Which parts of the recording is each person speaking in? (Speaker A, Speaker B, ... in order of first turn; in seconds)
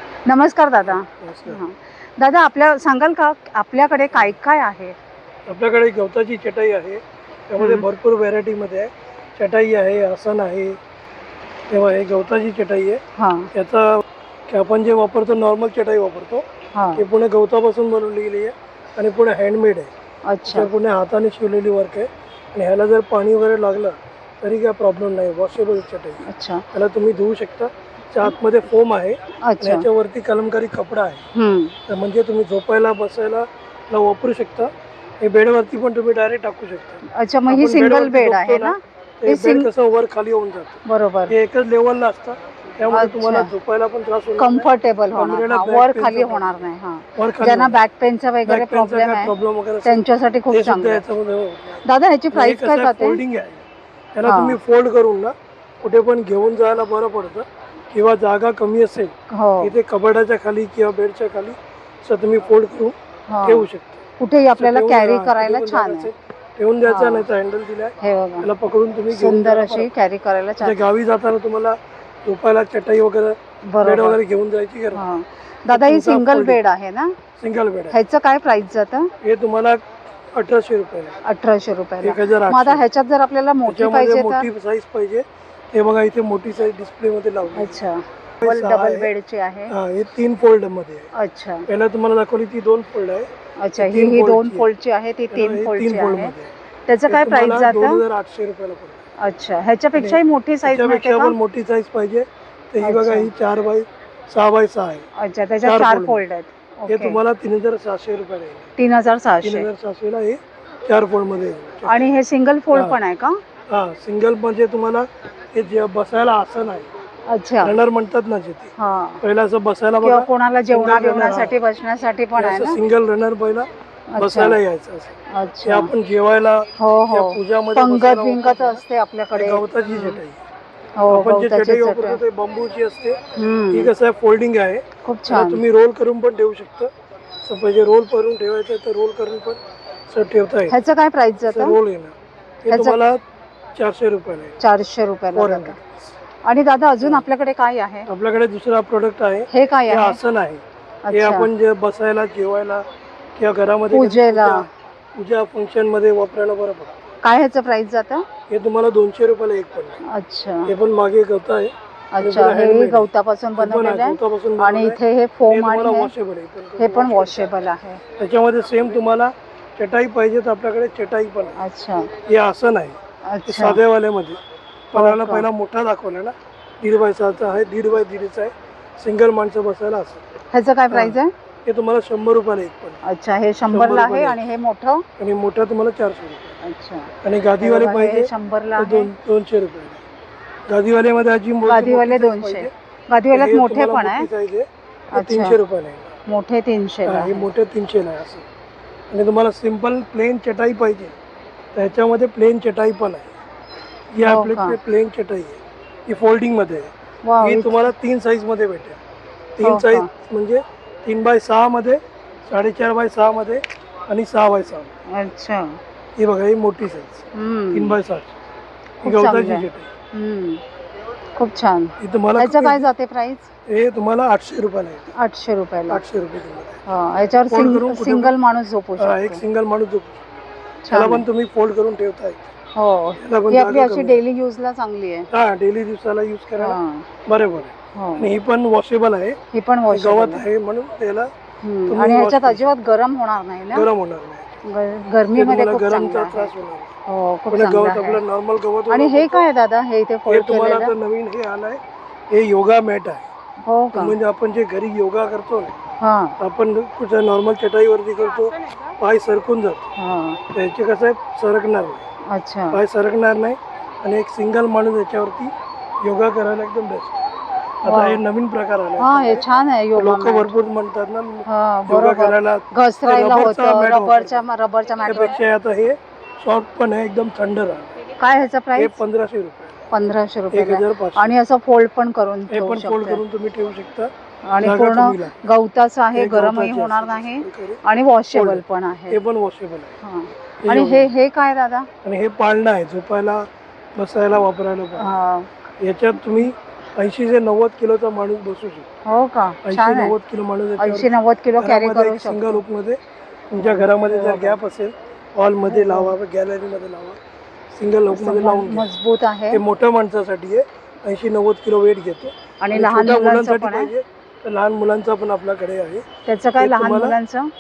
Speaker A: 0.2-5.0, 7.6-7.9, 13.2-13.5, 16.7-17.0, 20.3-20.7, 26.2-26.6, 29.4-29.9, 31.3-31.8, 37.1-39.7, 40.9-41.4, 42.9-43.5, 44.4-49.3, 49.8-51.0, 51.8-53.2, 54.2-54.6, 59.3-59.7, 63.3-63.7, 64.2-66.1, 66.9-67.3, 68.0-68.5, 69.1-70.8, 73.7-74.2, 74.9-77.2, 77.9-79.1, 81.2-84.5, 87.6-89.7, 91.2-91.7, 93.6-96.3, 96.9-98.0, 99.2-101.3, 102.8-103.3, 105.2-107.2, 108.8-109.7, 111.9-113.4, 117.3-117.8, 118.8-119.2, 120.0-122.8, 124.1-124.6, 125.3-125.9, 126.8-130.2, 131.0-132.2, 133.4-133.9, 135.0-135.6, 140.7-141.8, 142.7-143.0, 144.6-145.8, 146.4-148.1, 149.5-150.2, 151.1-151.5, 153.9-154.7, 157.2-158.2, 160.1-160.7, 162.1-166.1, 166.8-168.0, 171.6-172.1, 173.2-173.8, 174.9-175.4, 180.5-181.3, 183.1-185.1, 186.6-189.1, 191.7-194.3, 195.1-195.6, 196.3-197.4, 204.2-204.8, 207.2-207.9, 209.6-210.1, 215.1-215.8, 217.3-218.0, 219.0-220.6, 221.4-223.5, 225.2-226.0, 226.9-229.4, 230.8-231.2, 232.8-235.3, 236.6-237.1, 237.9-238.3, 239.5-240.4, 241.6-243.9, 244.7-246.5, 247.1-248.2, 248.9-250.9, 253.6-254.2, 256.0-256.4, 260.0-260.4, 262.3-262.8, 267.9-268.2, 269.0-270.5, 271.5-275.4, 278.2-279.0, 279.9-283.2, 284.5-289.2, 290.0-291.9, 295.0-295.5, 299.1-300.1, 300.8-302.6, 303.6-304.6, 305.7-306.1, 308.1-309.6, 312.6-313.9, 316.3-317.5
Speaker B: 1.2-1.6, 5.5-10.8, 11.7-13.0, 13.5-19.9, 20.5-31.2, 31.9-40.8, 41.3-46.5, 47.2-47.8, 48.5-64.0, 64.6-69.9, 70.6-75.0, 75.7-76.6, 77.4-78.0, 79.2-81.2, 82.0-82.9, 83.7-87.8, 88.4-89.1, 89.7-91.1, 91.7-94.7, 95.3-96.5, 97.1-99.0, 100.0-105.1, 105.6-106.2, 106.9-108.7, 109.4-112.0, 112.7-113.0, 113.7-116.9, 117.6-121.6, 122.4-125.1, 125.7-128.8, 129.3-130.4, 131.1-133.2, 133.7-136.9, 137.4-140.8, 141.5-143.2, 143.8-144.6, 145.3-145.9, 148.1-156.9, 158.5-160.0, 160.7-167.5, 168.2-171.6, 172.3-173.0, 173.5-174.4, 174.9-180.2, 180.9-183.0, 183.7-184.4, 185.2-186.5, 187.2-190.0, 190.7-192.7, 193.3-196.1, 197.1-198.4, 199.1-201.2, 201.8-203.3, 204.1-209.0, 209.6-214.9, 216.2-218.3, 219.0-219.9, 222.0-222.9, 223.7-225.1, 225.9-226.8, 227.5-228.3, 229.0-230.2, 230.9-232.5, 233.2-234.2, 235.3-239.4, 239.9-241.3, 241.9-242.7, 243.7-244.5, 245.3-246.9, 247.5-249.5, 250.3-253.3, 253.9-255.8, 256.4-259.8, 260.5-262.0, 262.7-265.5, 266.0-267.2, 267.8-274.4, 275.1-277.9, 278.8-279.8, 280.5-281.3, 282.5-285.3, 286.1-287.8, 288.3-289.9, 290.6-291.1, 292.0-295.1, 295.8-298.9, 299.6-303.0, 303.5-307.2, 307.7-308.9, 309.5-316.1, 316.6-317.2